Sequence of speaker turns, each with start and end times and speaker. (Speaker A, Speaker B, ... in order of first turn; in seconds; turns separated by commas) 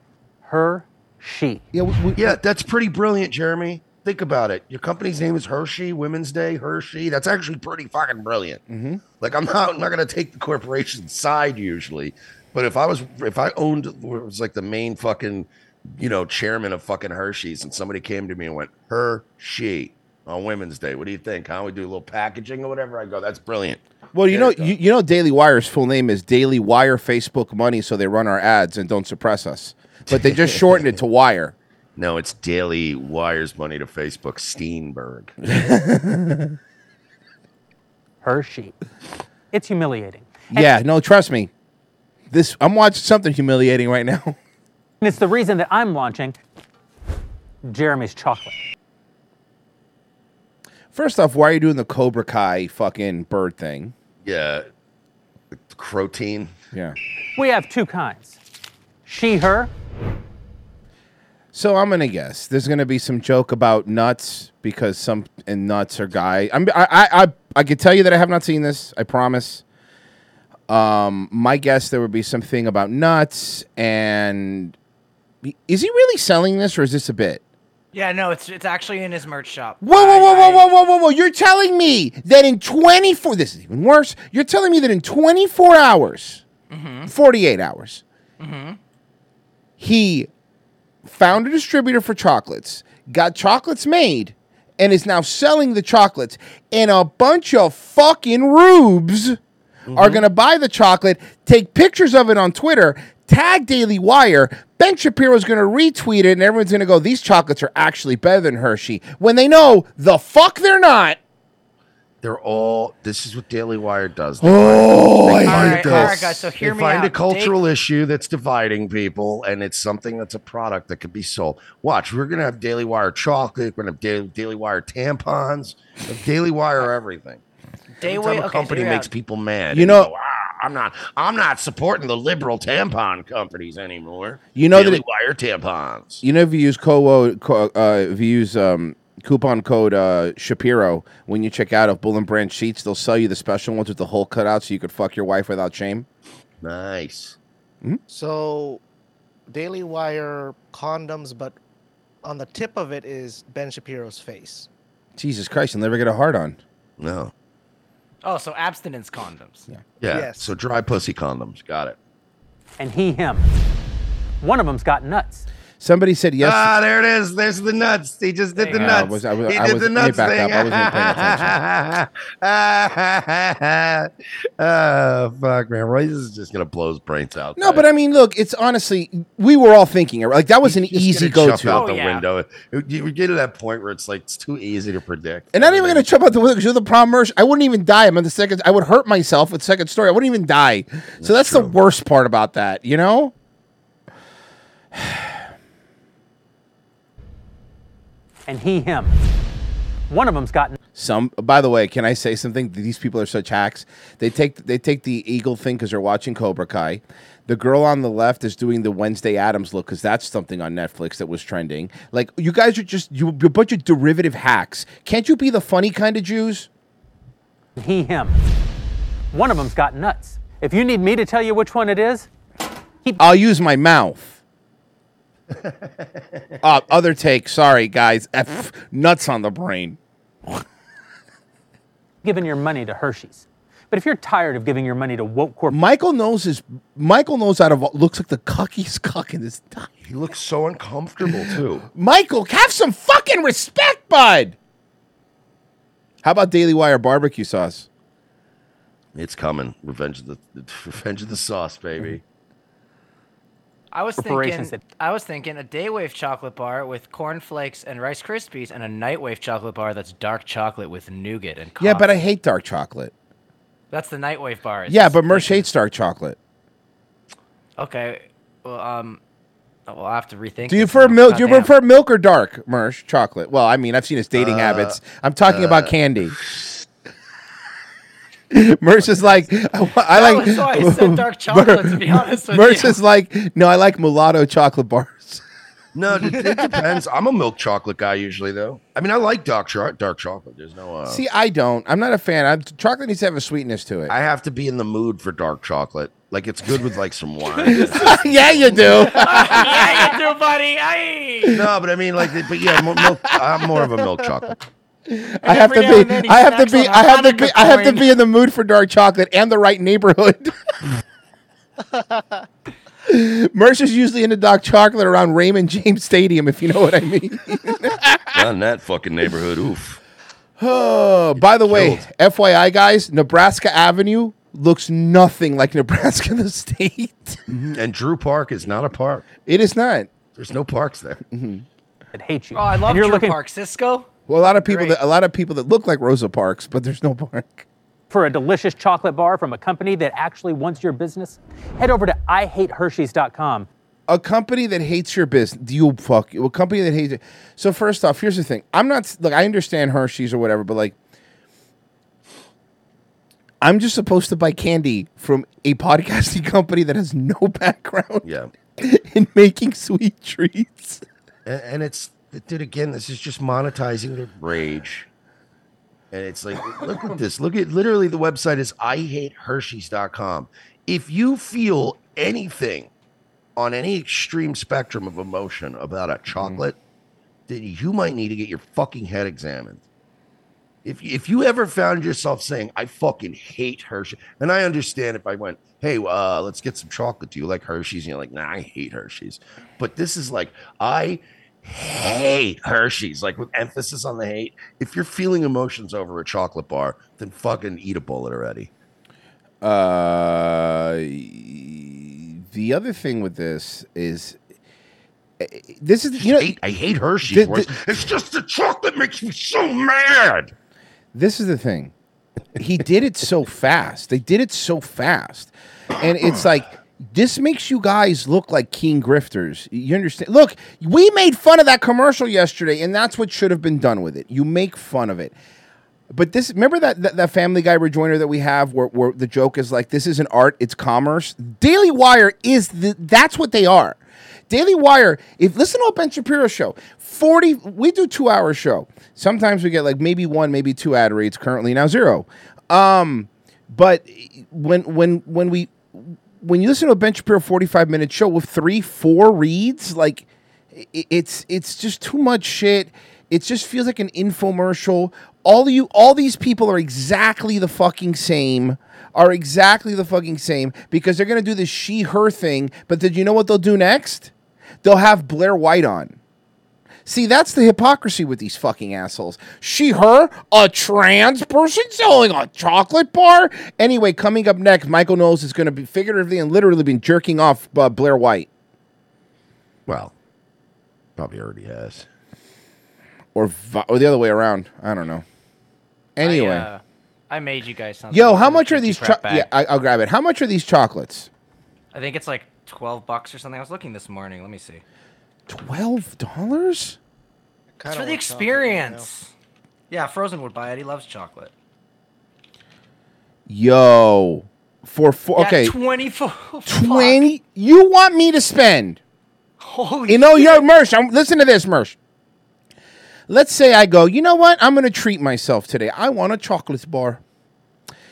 Speaker A: 0.4-1.6, Speaker B: 1.7-2.4, Speaker C: 2.2-8.6, Speaker B: 8.7-9.0, Speaker C: 9.2-24.7, Speaker B: 24.1-31.5, Speaker C: 30.1-30.6, Speaker C: 31.9-35.5, Speaker B: 35.5-36.6, Speaker A: 38.2-38.7, Speaker A: 39.5-40.7, Speaker B: 40.5-41.5, Speaker B: 42.3-44.4, Speaker A: 45.0-46.3, Speaker A: 47.6-48.5, Speaker B: 50.9-53.9, Speaker C: 54.2-54.6, Speaker C: 55.5-56.5, Speaker A: 57.4-58.4, Speaker A: 59.0-59.7, Speaker B: 61.5-69.6, Speaker B: 70.7-74.8, Speaker B: 75.4-77.4, Speaker D: 77.9-80.7, Speaker B: 79.8-86.4, Speaker D: 86.7-87.1, Speaker B: 87.0-88.0, Speaker D: 88.4-88.8, Speaker B: 89.8-90.3, Speaker B: 91.0-99.4, Speaker C: 99.9-100.2, Speaker B: 99.9-111.2, Speaker C: 112.2-127.4, Speaker B: 114.4-116.2, Speaker D: 115.4-117.6, Speaker D: 128.0-129.1, Speaker C: 128.0-136.2, Speaker B: 129.7-130.1, Speaker B: 134.6-135.0, Speaker B: 136.2-146.1, Speaker C: 146.6-147.3, Speaker E: 148.1-148.8, Speaker E: 149.5-151.6, Speaker E: 152.2-154.7, Speaker B: 155.2-156.6, Speaker C: 157.0-157.3, Speaker D: 158.2-159.7, Speaker C: 160.0-162.0, Speaker E: 160.1-160.5, Speaker A: 162.8-163.5, Speaker A: 164.4-165.4, Speaker B: 165.8-166.7, Speaker C: 166.4-177.8, Speaker D: 168.6-169.1, Speaker B: 168.7-171.6, Speaker B: 177.6-181.8, Speaker C: 180.6-186.1, Speaker D: 181.7-182.2, Speaker B: 185.5-193.3, Speaker C: 191.2-191.7, Speaker B: 194.9-195.3, Speaker A: 198.5-199.1, Speaker A: 200.1-200.8, Speaker B: 200.9-216.7, Speaker A: 217.8-218.4, Speaker A: 219.3-222.3, Speaker B: 223.2-224.4, Speaker B: 226.6-230.0, Speaker A: 232.2-235.8, Speaker B: 235.7-239.9, Speaker C: 240.0-241.8, Speaker B: 241.9-244.6, Speaker B: 246.2-247.9, Speaker C: 249.1-252.2, Speaker D: 253.9-262.1, Speaker A: 254.2-254.8, Speaker B: 261.8-263.1, Speaker D: 263.9-265.7, Speaker B: 264.9-266.4, Speaker D: 267.8-269.2, Speaker D: 269.9-271.7, Speaker B: 270.7-276.4, Speaker C: 274.3-275.9, Speaker B: 278.5-285.4, Speaker D: 280.1-283.0, Speaker C: 285.9-291.2, Speaker B: 291.1-294.1, Speaker C: 294.1-300.1, Speaker D: 297.6-298.1, Speaker B: 297.6-300.1, Speaker D: 298.9-301.6, Speaker C: 301.5-304.6, Speaker B: 305.1-310.5, Speaker D: 305.4-308.1, Speaker B: 313.1-318.4, Speaker C: 318.3-320.0, Speaker B: 320.6-327.4, Speaker C: 321.4-322.0, Speaker C: 327.5-329.3, Speaker B: 329.4-330.1, Speaker C: 330.3-331.2, Speaker B: 331.3-331.6, Speaker A: 332.1-333.4, Speaker D: 332.5-335.0, Speaker B: 334.3-337.6, Speaker A: 338.1-343.7, Speaker B: 344.1-350.9, Speaker B: 353.6-358.2, Speaker C: 358.2-358.5, Speaker B: 358.8-361.0, Speaker C: 361.4-365.1, Speaker C: 366.1-372.9, Speaker C: 373.6-376.8, Speaker C: 377.5-379.8, Speaker C: 380.8-398.7, Speaker B: 399.6-404.4, Speaker B: 405.4-406.5, Speaker C: 406.2-410.5, Speaker B: 407.3-407.7, Speaker B: 411.1-411.9, Speaker B: 412.6-425.3, Speaker B: 426.1-464.3, Speaker B: 464.8-466.2, Speaker B: 467.1-478.5, Speaker C: 479.9-480.1, Speaker C: 481.2-482.1, Speaker B: 483.3-485.2, Speaker B: 486.1-486.7, Speaker D: 486.2-489.5, Speaker B: 488.1-491.3, Speaker D: 491.9-494.8, Speaker B: 495.5-497.0, Speaker E: 497.8-499.1, Speaker D: 497.9-499.3, Speaker D: 499.9-501.5, Speaker B: 503.5-505.8, Speaker D: 505.4-507.2, Speaker B: 506.6-509.0, Speaker D: 509.6-510.6, Speaker B: 510.1-511.9, Speaker B: 513.3-517.2